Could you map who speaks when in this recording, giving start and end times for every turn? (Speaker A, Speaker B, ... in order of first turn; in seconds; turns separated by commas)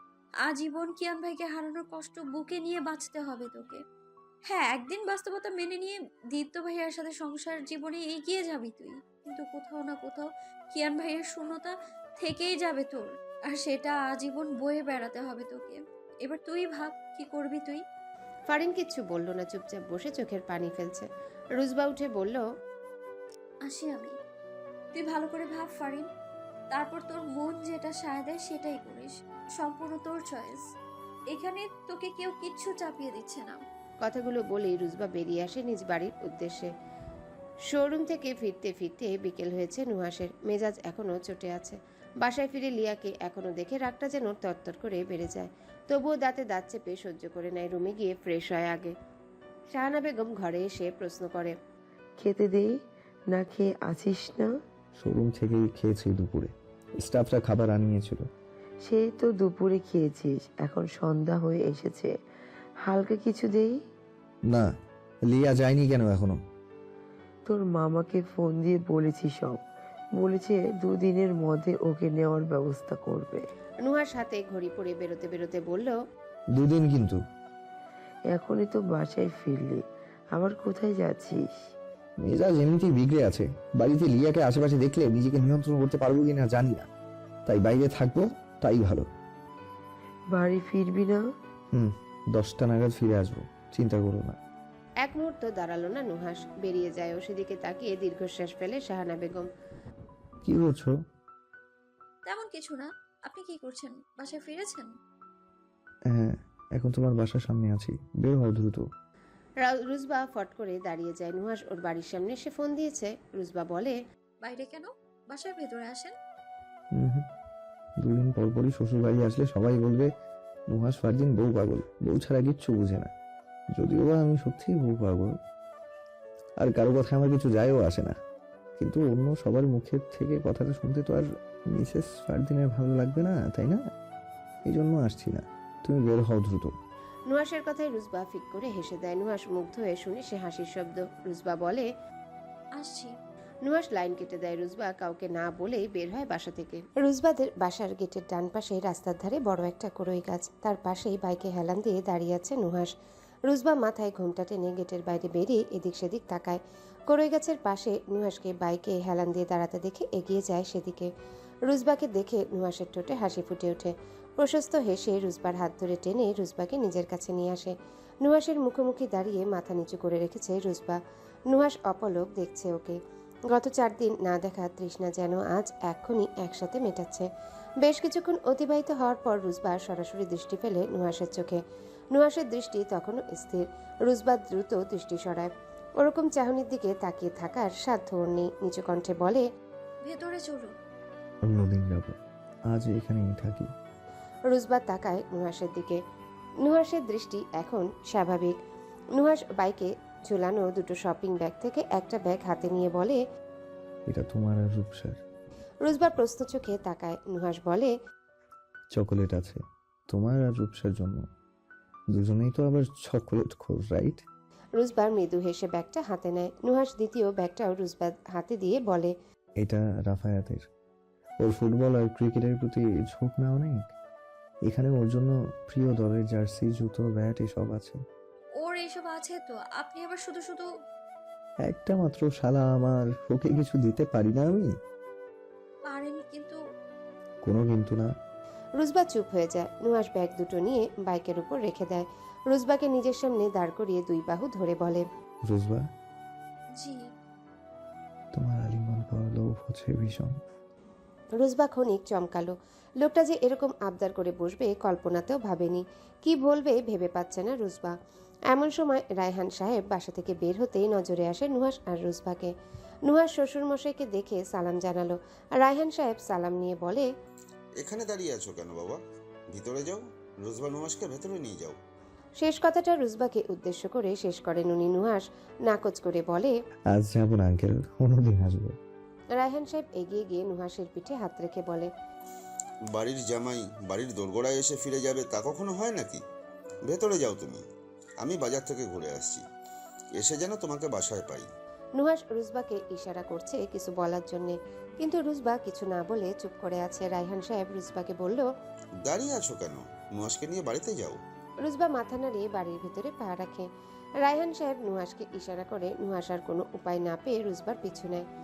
Speaker A: 0.4-3.8, Speaker A: 4.5-17.8, Speaker B: 18.5-22.4, Speaker A: 23.7-24.1, Speaker A: 25.0-26.1, Speaker A: 26.7-30.6, Speaker A: 31.3-33.6, Speaker B: 34.0-36.7, Speaker B: 37.7-49.0, Speaker B: 49.7-51.6, Speaker C: 52.2-52.7, Speaker C: 53.3-54.5, Speaker D: 55.0-58.3, Speaker C: 58.9-62.1, Speaker C: 62.9-63.8, Speaker D: 65.3-66.4, Speaker C: 67.5-69.6, Speaker C: 70.2-73.4, Speaker B: 73.8-76.0, Speaker D: 76.6-77.2, Speaker C: 78.3-79.8, Speaker C: 80.3-81.6, Speaker D: 82.2-86.9, Speaker D: 87.5-89.1, Speaker C: 90.3-91.2, Speaker D: 91.7-94.4, Speaker B: 95.0-99.5, Speaker D: 100.4-100.9, Speaker A: 102.3-104.9, Speaker D: 106.1-108.9, Speaker B: 109.6-114.0, Speaker A: 114.4-116.1, Speaker D: 116.9-117.3, Speaker D: 118.0-120.1, Speaker D: 120.7-123.1, Speaker D: 123.7-125.4, Speaker D: 126.6-128.2, Speaker D: 128.8-133.8, Speaker D: 134.7-136.8, Speaker B: 137.3-141.9, Speaker A: 142.8-143.1, Speaker B: 143.7-152.9, Speaker B: 153.5-161.1, Speaker B: 161.7-177.3, Speaker B: 177.8-181.6, Speaker B: 182.1-189.5, Speaker A: 190.1-190.7, Speaker D: 191.5-192.2, Speaker D: 192.7-193.7, Speaker B: 194.5-196.0, Speaker B: 196.6-198.6, Speaker B: 199.2-203.2, Speaker D: 204.1-205.2, Speaker B: 205.8-207.9, Speaker D: 208.9-211.3, Speaker D: 212.1-214.2, Speaker B: 214.8-219.1, Speaker D: 219.6-220.7, Speaker D: 221.4-223.9, Speaker D: 224.7-228.0, Speaker A: 228.6-230.7, Speaker D: 231.7-234.7, Speaker A: 235.9-236.6, Speaker D: 237.4-238.1, Speaker B: 238.8-245.1, Speaker D: 245.5-245.9, Speaker A: 246.8-247.0, Speaker D: 248.3-250.4, Speaker B: 251.4-258.0, Speaker B: 258.5-262.5, Speaker B: 263.1-267.1, Speaker E: 267.8-269.0, Speaker E: 269.5-271.8, Speaker B: 272.4-276.5, Speaker D: 276.9-278.8, Speaker B: 279.3-281.9, Speaker E: 282.9-286.2, Speaker E: 286.9-287.6, Speaker E: 288.2-289.4, Speaker E: 290.2-291.5, Speaker B: 292.0-298.5, Speaker E: 299.1-301.2, Speaker B: 301.6-303.7, Speaker B: 304.2-308.3